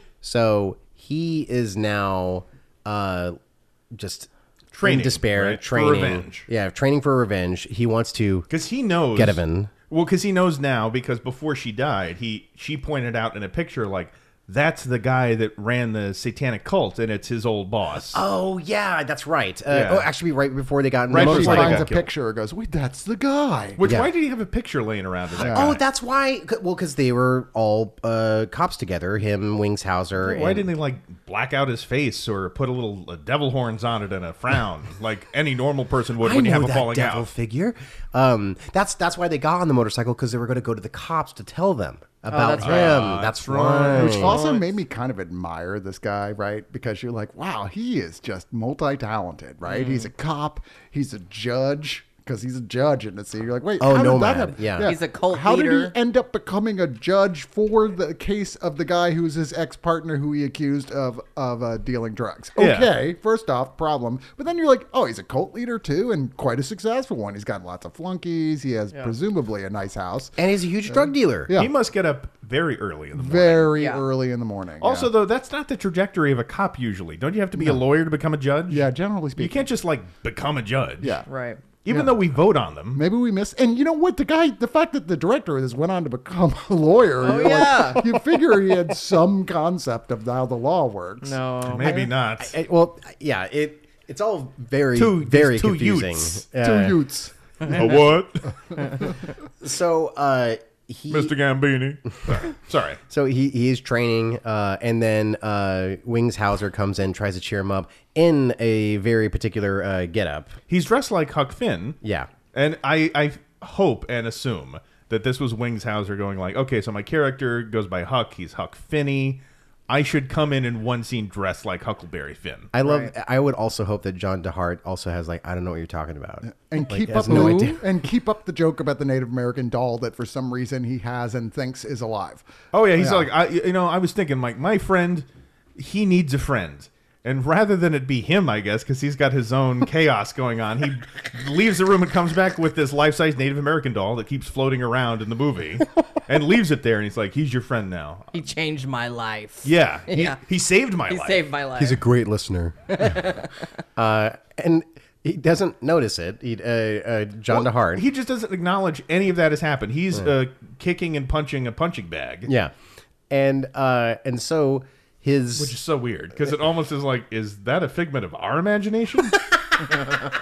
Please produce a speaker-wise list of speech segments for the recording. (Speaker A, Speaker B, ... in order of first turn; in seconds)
Speaker A: 0.2-3.4, 3.9-4.3, 4.8-8.5, 9.1-9.7, 18.1-21.9, 23.8-24.1, 25.4-30.7, 36.2-44.4, 53.8-55.0, 70.4-71.5, 91.8-97.0, 99.6-101.4, 103.1-110.6, 112.0-112.3, 122.7-127.8, 151.8-153.2, 154.0-158.0, 162.5-162.7, 163.3-165.8
Speaker B: 4.7-6.5, 8.5-18.2, 19.7-20.1, 21.1-22.1, 23.8-25.8, 30.2-37.3, 42.6-44.4, 62.6-62.9, 71.5-73.8, 74.8-81.2, 81.8-83.0, 91.7-92.5, 95.0-96.4, 97.7-98.5, 101.1-103.0, 110.7-112.0, 112.5-122.7, 132.7-148.3, 149.6-151.4, 157.5-162.5, 165.6-169.4
Speaker C: 21.1-23.8, 25.4-25.8, 43.9-71.7, 73.2-75.1, 77.6-77.8, 78.7-79.7, 81.0-81.3, 81.9-82.3, 82.9-91.4, 96.6-98.0, 126.4-133.3
Speaker D: 42.3-43.1, 44.3-44.6, 49.6-50.1, 54.8-55.9, 73.8-74.1, 81.3-81.6, 87.2-88.1, 91.2-92.0, 122.8-123.1, 127.3-127.7, 148.3-150.4, 151.1-152.0, 152.9-153.5